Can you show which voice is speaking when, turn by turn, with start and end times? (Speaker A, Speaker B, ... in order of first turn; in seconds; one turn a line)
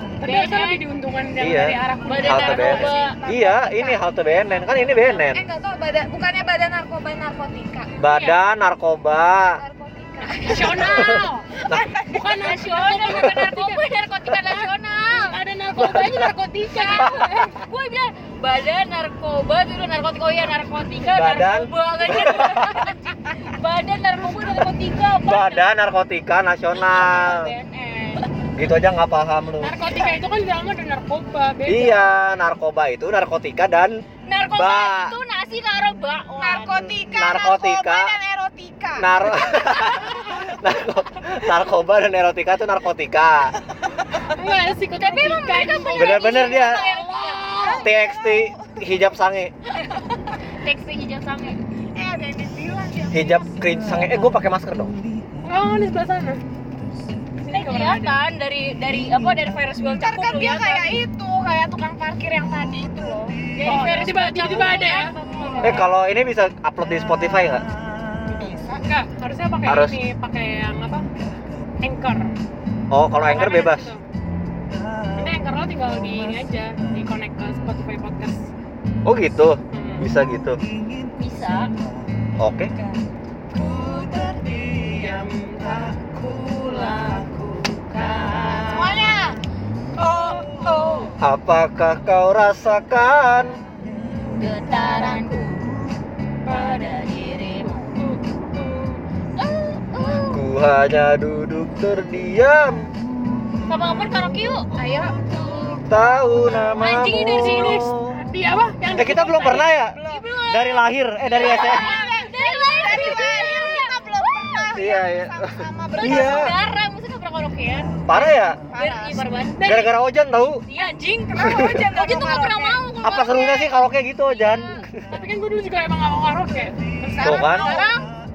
Speaker A: 0.2-2.7
Speaker B: 0.2-0.8
Speaker C: 1.4-5.5
Speaker B: 2.1-3.2
Speaker D: 2.4-4.0
Speaker B: 4.7-5.2
Speaker D: 5.2-7.9
Speaker C: 8.0-9.6
Speaker A: 8.0-8.4
Speaker D: 9.6-11.1
Speaker A: 10.4-17.5
Speaker B: 10.5-11.2
Speaker C: 10.9-11.8
Speaker D: 11.7-12.4
Speaker B: 12.2-15.4
Speaker C: 15.8-16.2
Speaker B: 16.7-25.7
Speaker C: 17.0-17.3
Speaker C: 21.1-22.9
Speaker C: 25.3-27.6
Speaker B: 26.9-28.2
Speaker D: 27.7-28.2
Speaker C: 28.6-29.9
Speaker A: 29.6-32.1
Speaker C: 31.7-34.0
Speaker B: 34.2-36.9
Speaker C: 34.5-35.1
Speaker D: 36.4-39.3
Speaker C: 37.1-38.1
Speaker C: 39.0-43.5
Speaker A: 44.2-47.9
Speaker B: 45.0-47.8
Speaker C: 45.9-46.9
Speaker D: 47.6-48.8
Speaker C: 47.8-49.5
Speaker B: 50.0-51.6
Speaker D: 52.0-53.5
Speaker C: 53.1-54.9
Speaker A: 55.4-56.4
Speaker A: 57.5-58.2
Speaker B: 57.5-61.0
Speaker D: 59.9-63.4
Speaker B: 63.5-65.9
Speaker A: 63.6-65.8
Speaker C: 65.6-67.7
Speaker D: 68.3-68.8
Speaker A: 68.8-71.1
Speaker C: 69.7-70.0
Speaker A: 71.8-72.3
Speaker C: 72.9-73.9
Speaker A: 73.2-74.0
Speaker A: 75.2-78.5
Speaker C: 79.1-80.6
Speaker A: 79.7-80.1
Speaker B: 81.2-81.7
Speaker C: 82.4-82.7
Speaker A: 83.5-88.7
Speaker B: 86.8-87.2
Speaker B: 87.9-89.1
Speaker D: 88.7-89.4
Speaker B: 90.0-91.1
Speaker C: 91.2-93.6
Speaker B: 94.3-95.7
Speaker D: 94.7-95.2
Speaker B: 96.5-97.9
Speaker A: 98.0-99.0
Speaker B: 99.4-100.4
Speaker C: 100.3-102.9
Speaker B: 103.7-104.7
Speaker D: 104.8-106.2
Speaker C: 105.9-108.2
Speaker B: 106.8-107.9
Speaker A: 106.9-109.7
Speaker C: 108.9-112.0
Speaker D: 109.7-110.3
Speaker B: 110.0-114.7
Speaker D: 111.4-116.5
Speaker C: 114.7-116.5
Speaker B: 116.0-119.7
Speaker C: 118.1-118.6
Speaker D: 118.7-119.4
Speaker A: 119.6-120.0
Speaker C: 119.6-120.6
Speaker B: 120.7-123.8
Speaker D: 121.3-122.8
Speaker C: 121.4-121.8
Speaker C: 123.0-125.1
Speaker B: 124.3-124.9
Speaker A: 125.1-127.3
Speaker D: 127.0-128.0
Speaker C: 127.2-127.7
Speaker B: 127.3-128.1